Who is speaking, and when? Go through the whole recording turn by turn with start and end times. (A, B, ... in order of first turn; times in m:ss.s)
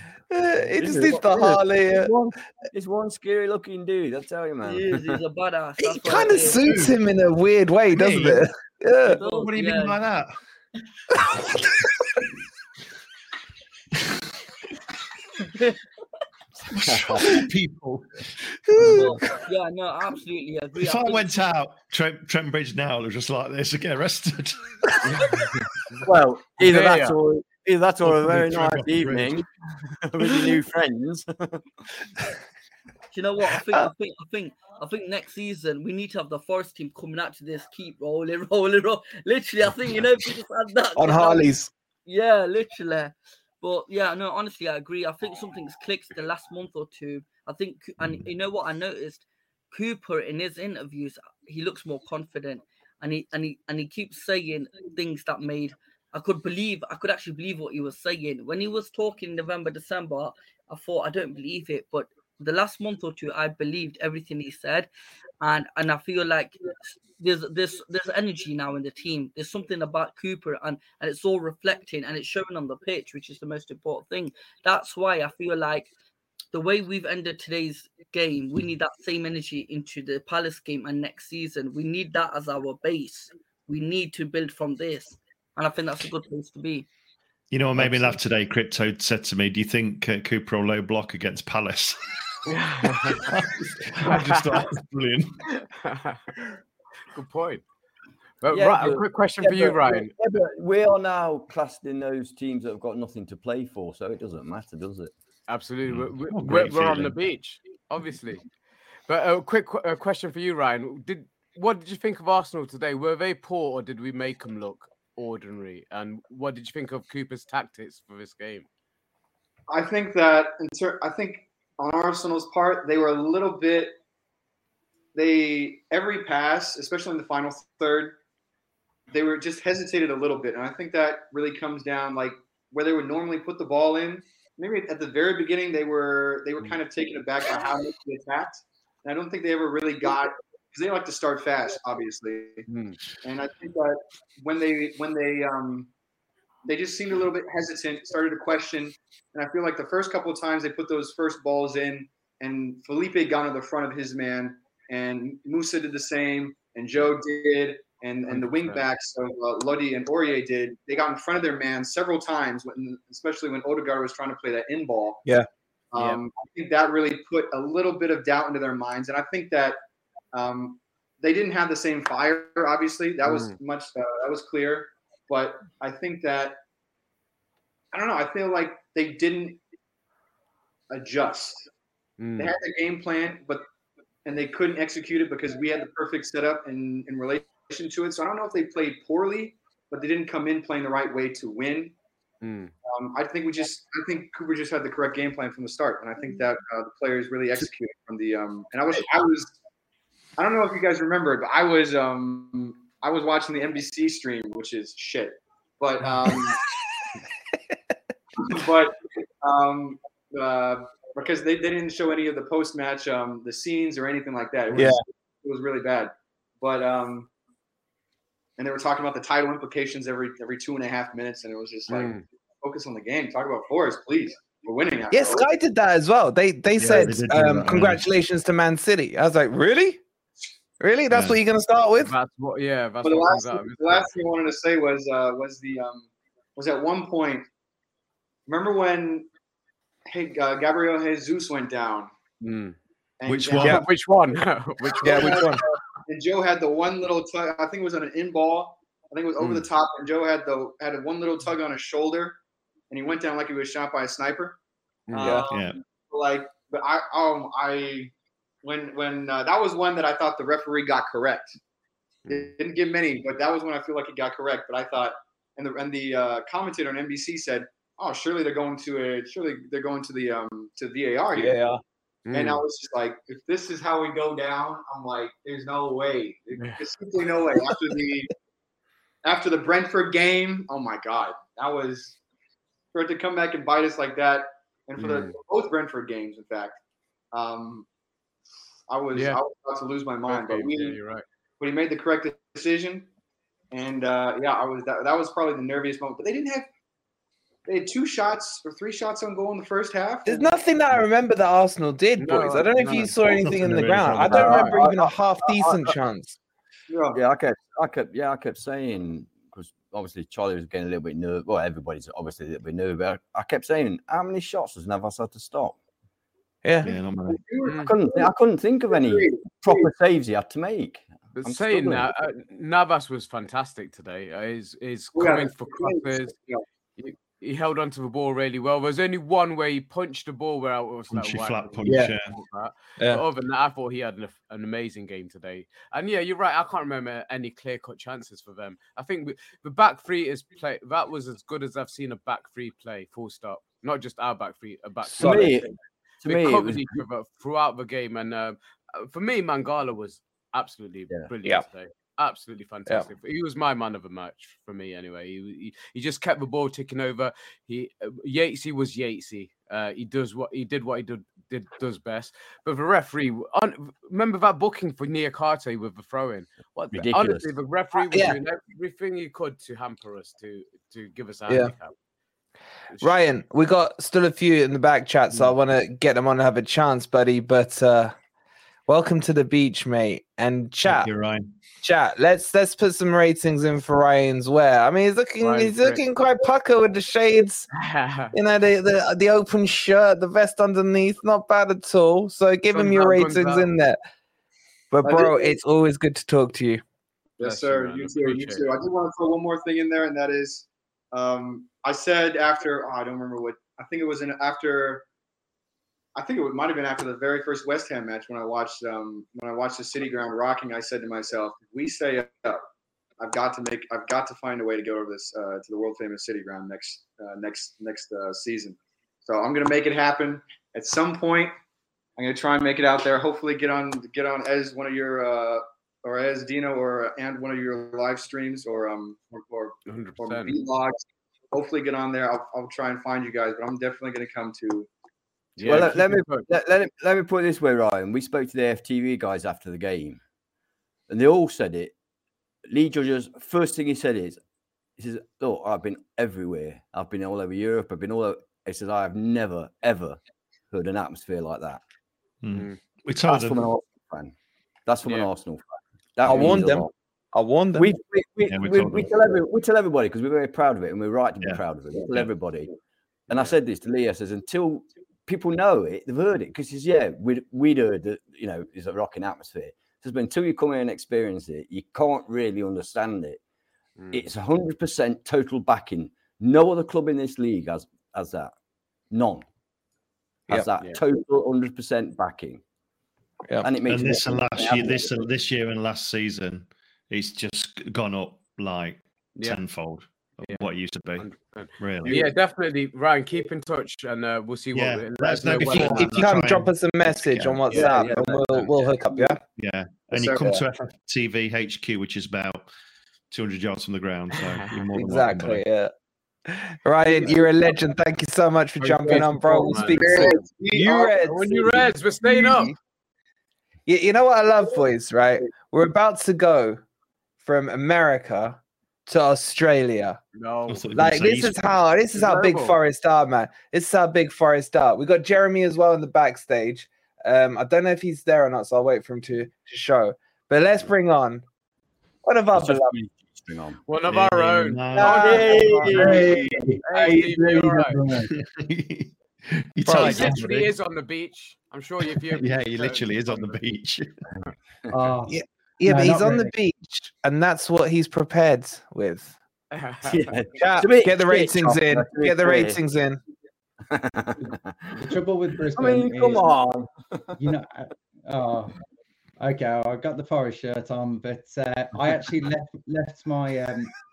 0:00.3-0:02.1 A
0:00.6-0:05.2 B
0:04.6-0:06.9 C
0:05.8-0:09.2 A
0:06.4-0:06.9 D
0:07.9-0:08.5 D
0:09.0-0:10.0 C
0:09.0-0:10.4 D
0:16.7-0:19.0 D
0:16.9-0:17.4 B
0:18.8-0:21.3 C
0:20.8-0:25.3 D
0:25.0-0:26.0 E
0:26.0-0:29.5 B
0:26.6-0:27.2 E
0:28.0-0:29.4 D
0:30.0-0:31.6 B
0:33.1-0:41.5 C
0:41.0-0:41.7 A
0:42.1-1:04.9 C
1:05.4-1:15.9 C
1:16.5-1:26.9 C
1:27.5-1:32.1 D
1:32.5-1:33.3 E
1:32.9-1:35.4 D
1:34.0-1:34.5 E
1:35.8-1:36.2 E
1:37.1-1:37.6 E
1:38.4-1:40.1 E
1:38.5-1:45.1 B
1:45.5-1:48.4 E
1:45.9-1:47.1 D
1:49.1-1:58.7 E
1:59.7-2:03.9 F
2:05.2-2:08.2 F
2:09.1-2:22.7 F
2:22.7-2:23.0 E
2:23.2-2:25.9 F
2:26.7-2:45.2 F
2:38.3-2:38.8 E
2:45.9-2:49.8 F
2:50.3-2:56.6 F
2:53.3-2:53.6 E
2:57.9-2:59.6 F
3:00.9-3:01.7 F
3:02.2-3:02.5 E
3:02.4-3:03.6 F
3:04.3-3:11.9 F
3:12.4-3:12.7 E
3:12.9-3:19.5 F
3:20.4-3:26.6 F
3:28.5-3:37.3 F
3:38.6-3:45.5 F
3:41.9-3:42.2 E
3:45.1-3:50.0 A
3:46.8-3:48.0 D
3:50.8-3:52.1 A
3:51.1-3:51.4 D
3:52.0-3:54.1 E
3:53.0-3:57.5 F
3:58.5-3:59.3 F
4:00.1-4:02.1 F
4:02.4-4:02.8 E
4:03.2-4:03.8 F
4:03.3-4:03.8 D
4:03.6-4:05.5 E
4:04.8-4:12.4 F
4:05.0-4:05.6 A
4:12.9-4:14.6 F
4:15.1-4:15.4 E
4:15.1-4:18.1 F
4:15.2-4:15.5 A
4:15.5-4:15.8 D
4:18.6-4:21.6 F
4:22.3-4:31.7 F
4:31.4-4:31.8 A
4:32.3-4:32.6 E
4:32.3-4:38.3 F
4:36.6-4:36.8 E
4:39.2-4:42.2 F
4:42.9-4:46.8 F
4:45.0-4:45.4 E
4:47.3-4:47.9 F
4:48.9-4:51.0 F
4:49.1-4:49.4 E
4:50.3-4:51.2 E
4:51.6-4:53.1 F
4:53.7-4:56.7 F
4:57.7-5:00.5 F
5:00.3-5:06.4 A
5:02.2-5:03.4 E
5:03.4-5:04.5 D
5:04.3-5:05.9 B
5:04.5-5:04.8 E
5:06.9-5:07.2 F
5:07.2-5:15.8 B
5:16.8-5:17.4 D
5:17.3-5:22.1 B
5:17.4-5:18.3 F
5:17.6-5:17.9 E
5:18.9-5:19.9 F
5:21.4-5:26.4 E
5:25.2-5:26.6 F
5:27.0-5:45.6 E
5:31.1-5:32.3 D
5:31.9-5:32.1 A
5:45.2-5:45.7 B
5:45.2-5:45.5 A
5:46.2-5:47.0 B
5:46.2-6:12.0 E
6:06.9-6:07.5 B
6:08.1-6:08.4 A
6:13.0-6:18.2 A
6:18.9-6:21.1 A
6:20.8-6:21.5 D
6:21.8-6:27.7 A
6:25.4-6:26.0 E
6:27.7-6:28.3 E
6:28.3-6:34.0 A
6:32.7-6:33.7 E
6:34.9-6:36.8 A
6:35.0-6:35.5 F
6:37.4-6:45.0 F
6:37.4-6:38.7 E
6:46.2-6:52.6 F
6:53.2-7:01.5 F
7:02.2-7:11.0 F
7:09.9-7:10.6 E
7:11.5-7:14.9 F
7:15.6-7:16.5 E
7:15.6-7:20.2 B
7:21.1-7:21.9 B
7:22.7-7:24.4 B
7:25.0-7:30.2 B
7:30.7-7:31.8 B
7:32.4-7:33.6 D
7:32.5-7:32.8 E
7:33.2-7:34.3 B
7:34.9-7:36.9 B
7:36.2-7:37.9 A
7:37.8-7:42.7 B
7:38.5-7:39.1 D
7:41.4-7:42.3 D
7:43.3-7:53.4 B
7:54.0-7:54.2 E
7:54.1-7:58.6 B
7:59.1-7:59.4 B
8:00.5-8:02.6 B
8:03.6-8:05.2 B
8:03.9-8:11.3 D
8:11.2-8:16.3 E
8:11.8-8:12.2 D
8:14.8-8:17.9 D
8:15.5-8:19.4 A
8:17.7-8:18.6 B
8:19.6-8:22.7 D
8:20.1-8:20.5 F
8:23.3-8:25.6 D
8:24.4-8:24.7 E
8:24.9-8:25.9 A
8:26.5-8:32.8 A
8:28.8-8:32.8 E
8:29.9-8:31.1 F
8:33.9-8:36.8 A
8:37.4-8:40.2 A
8:40.4-8:40.9 E
8:40.7-8:41.6 D
8:41.0-8:51.4 A
8:42.2-8:42.8 E
8:52.2-8:53.0 A
8:52.5-8:53.8 B
8:53.9-8:58.0 E
8:54.1-8:56.3 D
8:55.0-8:55.5 A
8:55.0-8:56.6 B
8:55.9-8:58.3 G
8:58.3-9:00.7 D
8:59.9-9:00.4 A
9:00.0-9:03.6 E
9:02.1-9:04.1 D
9:04.4-9:04.9 B
9:04.9-9:06.5 G
9:05.3-9:09.4 A
9:09.7-9:10.3 E
9:10.0-9:12.8 B
9:10.6-9:13.2 A
9:13.9-9:15.1 B
9:15.0-9:16.5 G
9:15.8-9:17.4 B
9:17.4-9:18.7 G
9:19.4-9:23.9 G